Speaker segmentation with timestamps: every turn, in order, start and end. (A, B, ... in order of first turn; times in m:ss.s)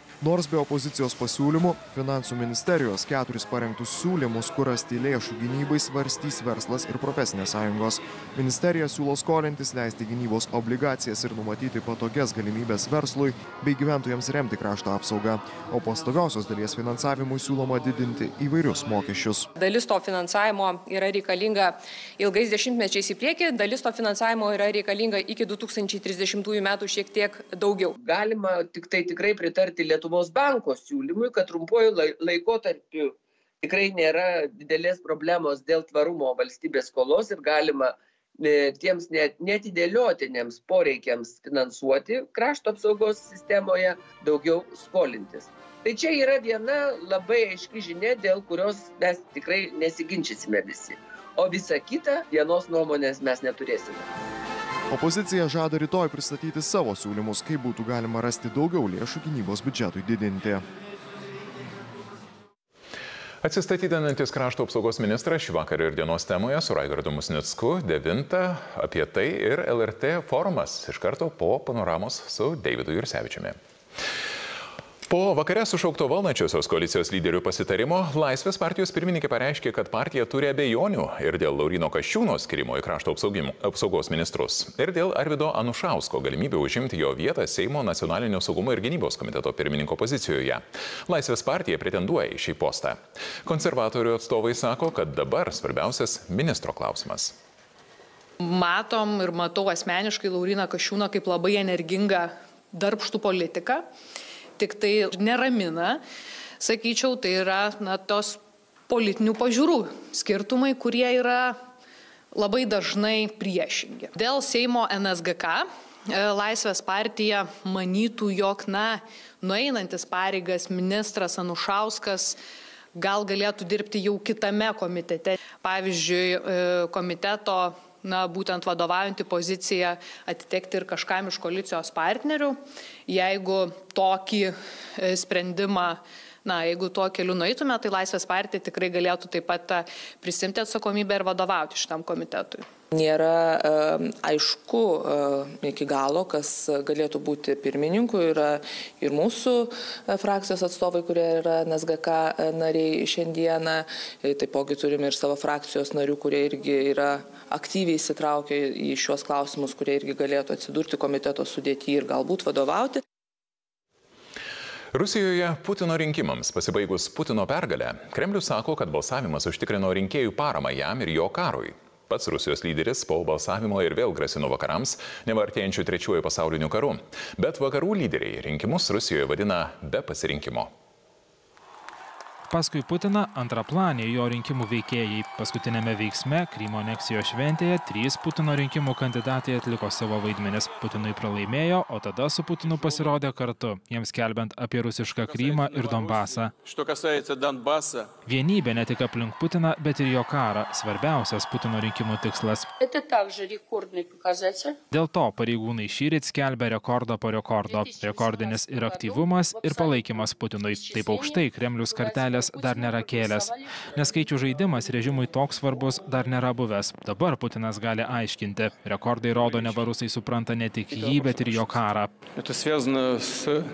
0:00.2-0:19.5 A
0:19.6-0:27.9 B
0:28.0-0:54.1 C
0:54.9-1:00.6 A
1:03.4-1:13.6 D
1:15.1-1:37.4 D
1:38.4-1:43.8 E
1:44.6-1:46.0 E
1:46.6-1:51.6 E
1:52.3-2:02.4 E
2:03.0-2:22.7 E
2:22.9-2:43.0 F
2:44.9-3:00.7 D
3:02.5-3:16.5 G
3:18.3-3:22.7 G
3:24.9-3:42.1 G